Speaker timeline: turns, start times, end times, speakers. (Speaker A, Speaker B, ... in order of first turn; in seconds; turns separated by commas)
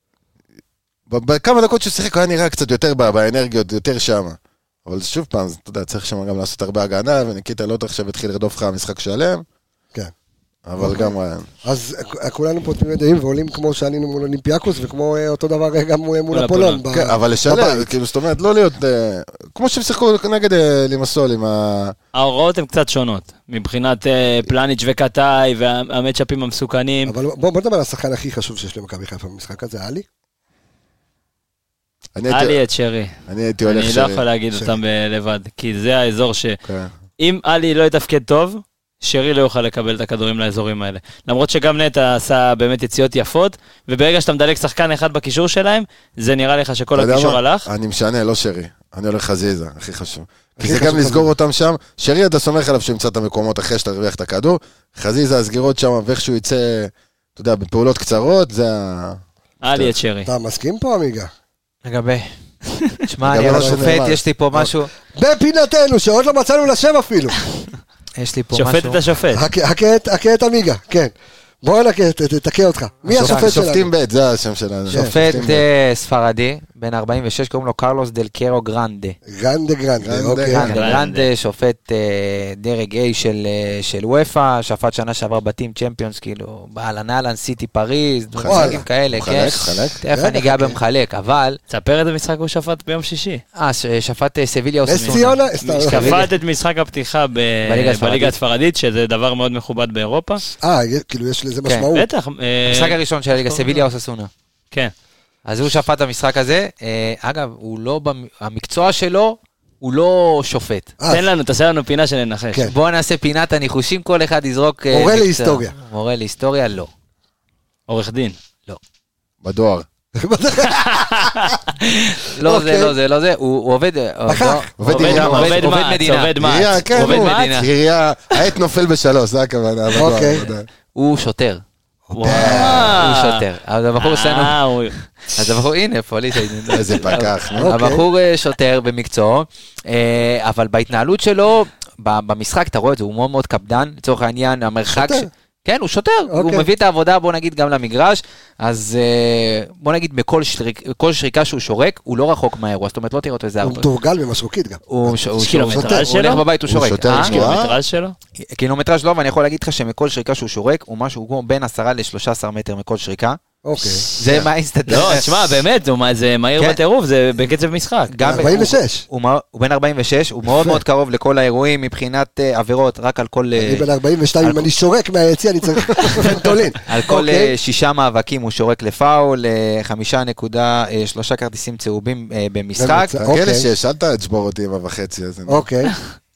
Speaker A: 1.1-9.4, Speaker A: 10.7-11.5, Speaker B: 10.8-11.1, Speaker B: 11.6-17.9, Speaker C: 16.3-16.8, Speaker A: 16.9-21.9, Speaker C: 22.1-27.1, Speaker B: 27.1-30.0, Speaker A: 32.1-32.6, Speaker C: 32.3-36.6, Speaker A: 33.3-34.2, Speaker A: 36.6-36.9, Speaker C: 37.2-47.7, Speaker A: 47.0-59.9, Speaker B: 50.6-51.3, Speaker C: 59.6-60.3, Speaker B: 60.2-61.3, Speaker D: 61.8-62.3, Speaker D: 63.0-64.9, Speaker A: 63.2-64.2, Speaker B: 63.3-67.3, Speaker D: 68.2-69.0, Speaker C: 68.5-69.4, Speaker B: 69.3-73.9, Speaker D: 73.1-73.6, Speaker A: 73.1-75.7, Speaker B: 74.9-75.4, Speaker D: 74.9-79.2, Speaker B: 79.3-80.7, Speaker A: 80.0-80.6, Speaker D: 80.5-91.6, Speaker C: 80.5-81.3, Speaker A: 88.3-90.0, Speaker B: 88.5-88.8, Speaker B: 90.1-90.8, Speaker C: 91.7-93.4, Speaker D: 93.5-96.2, Speaker B: 94.8-96.3, Speaker C: 95.0-100.4, Speaker D: 97.7-98.3, Speaker B: 100.6-102.1, Speaker C: 101.9-103.8, Speaker D: 102.7-104.3, Speaker D: 105.5-110.9, Speaker C: 111.1-112.7, Speaker D: 112.7-116.9, Speaker B: 114.9-115.7, Speaker C: 117.9-118.3, Speaker A: 119.4-119.8, Speaker B: 120.2-121.5, Speaker C: 120.7-121.5, Speaker D: 121.8-127.7, Speaker B: 122.4-122.9, Speaker B: 124.3-124.7, Speaker A: 124.8-125.7, Speaker C: 124.9-127.6, Speaker A: 126.4-130.7, Speaker B: 130.0-130.5, Speaker D: 130.9-131.6, Speaker B: 132.1-133.0, Speaker D: 132.2-153.9, Speaker C: 132.2-133.4, Speaker C: 134.0-134.9, Speaker A: 136.7-137.8, Speaker C: 136.9-137.3, Speaker B: 137.6-138.0, Speaker B: 144.9-145.3, Speaker B: 146.3-146.7, Speaker B: 153.6-156.1, Speaker D: 154.9-157.4, Speaker C: 155.4-156.5, Speaker A: 156.7-157.8, Speaker C: 157.0-158.1, Speaker D: 158.4-163.4, Speaker B: 163.6-164.1, Speaker D: 164.2-165.6, Speaker A: 164.2-164.5, Speaker C: 164.9-168.5, Speaker D: 168.1-173.9, Speaker B: 168.2-169.0, Speaker B: 170.5-170.8, Speaker B: 173.6-177.5, Speaker D: 174.4-174.7, Speaker D: 176.3-183.2, Speaker B: 182.8-183.7, Speaker A: 183.2-185.7, Speaker B: 185.5-185.9